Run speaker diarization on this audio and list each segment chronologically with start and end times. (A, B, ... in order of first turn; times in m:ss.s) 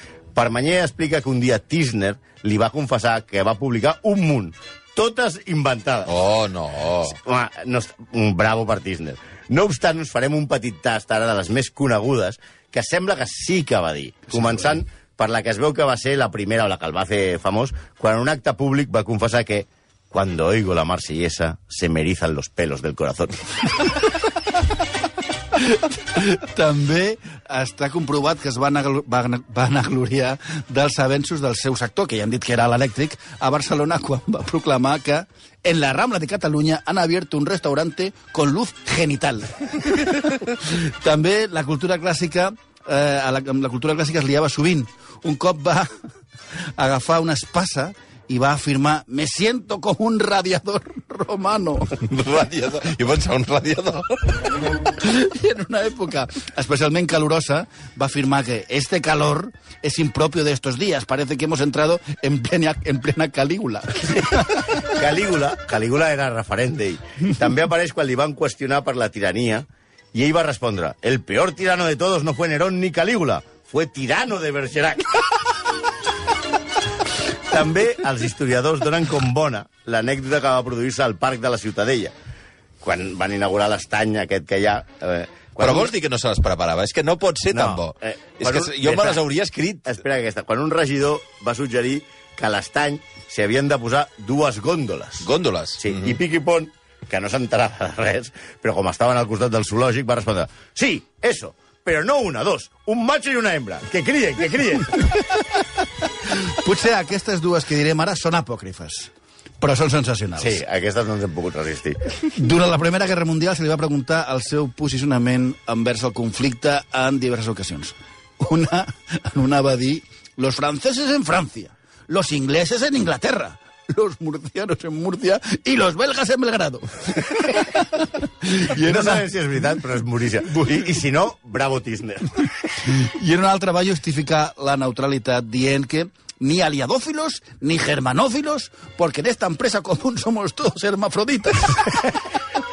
0:00.3-0:06.1 A
0:06.0-0:07.2 B
0:07.1-0:23.9 A
0:25.6-0:45.9 C
0:46.8-0:52.0 C
0:52.0-0:54.4 B
0:54.8-1:04.7 C
1:04.3-1:15.3 A
1:17.5-1:22.1 A
1:22.8-1:25.9 A
1:25.6-1:29.9 B
1:27.5-1:29.2 A
1:29.8-1:45.2 A
1:35.2-1:36.1 B
1:46.3-1:49.1 C
1:49.6-1:50.6 C
1:50.4-1:52.0 A
1:52.3-2:09.2 C
2:08.8-2:12.3 A
2:12.8-2:22.2 C